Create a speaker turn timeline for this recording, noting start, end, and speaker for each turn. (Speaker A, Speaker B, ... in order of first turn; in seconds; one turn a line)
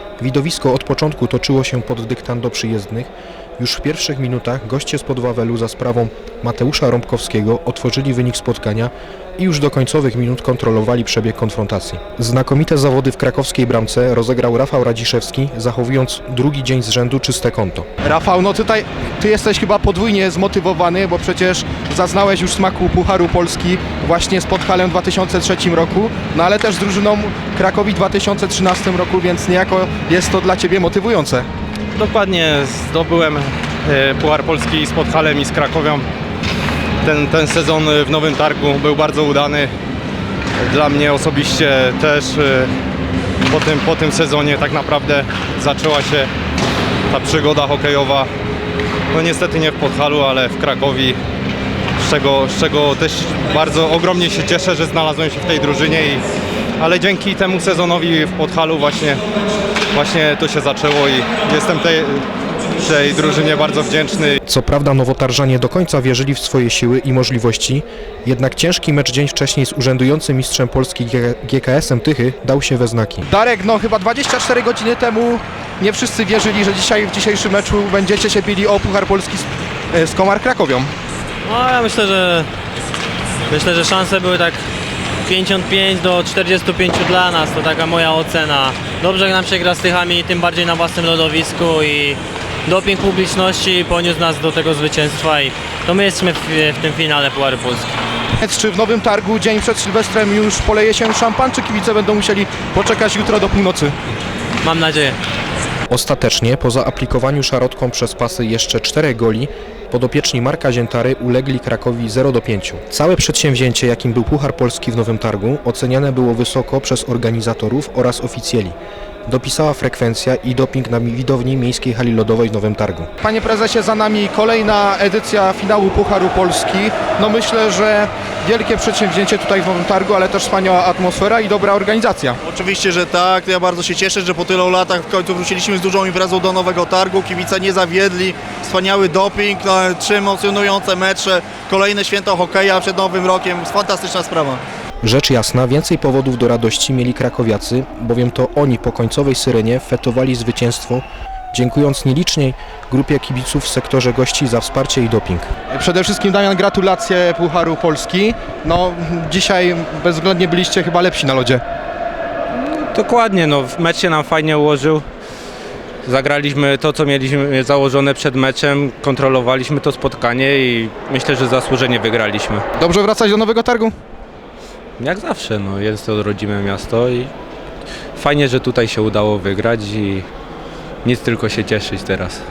Speaker A: 0.2-17.9
Speaker B: 18.0-31.5
Speaker C: 32.0-36.1
Speaker C: 37.0-39.7
Speaker C: 40.6-42.7
Speaker C: 43.5-46.3
Speaker C: 47.1-48.3
Speaker C: 49.1-51.2
Speaker C: 52.0-56.2
Speaker C: 56.8-59.2
Speaker C: 59.9-62.2
Speaker C: 62.8-64.4
Speaker A: 64.4-73.3
Speaker B: 73.3-80.9
Speaker D: 81.5-82.5
Speaker D: 83.5-84.6
Speaker D: 85.2-97.9
Speaker B: 98.4-104.0
Speaker D: 104.6-105.2
Speaker A: 105.9-123.1
Speaker B: 123.2-132.4
Speaker E: 132.4-144.6
Speaker A: 145.0-155.5
Speaker B: 155.7-161.6
Speaker C: 162.5-165.1
Speaker C: 166.0-172.7
Speaker B: 172.8-173.9
Speaker C: 175.0-177.3
Speaker C: 178.2-180.3
Speaker C: 181.0-182.4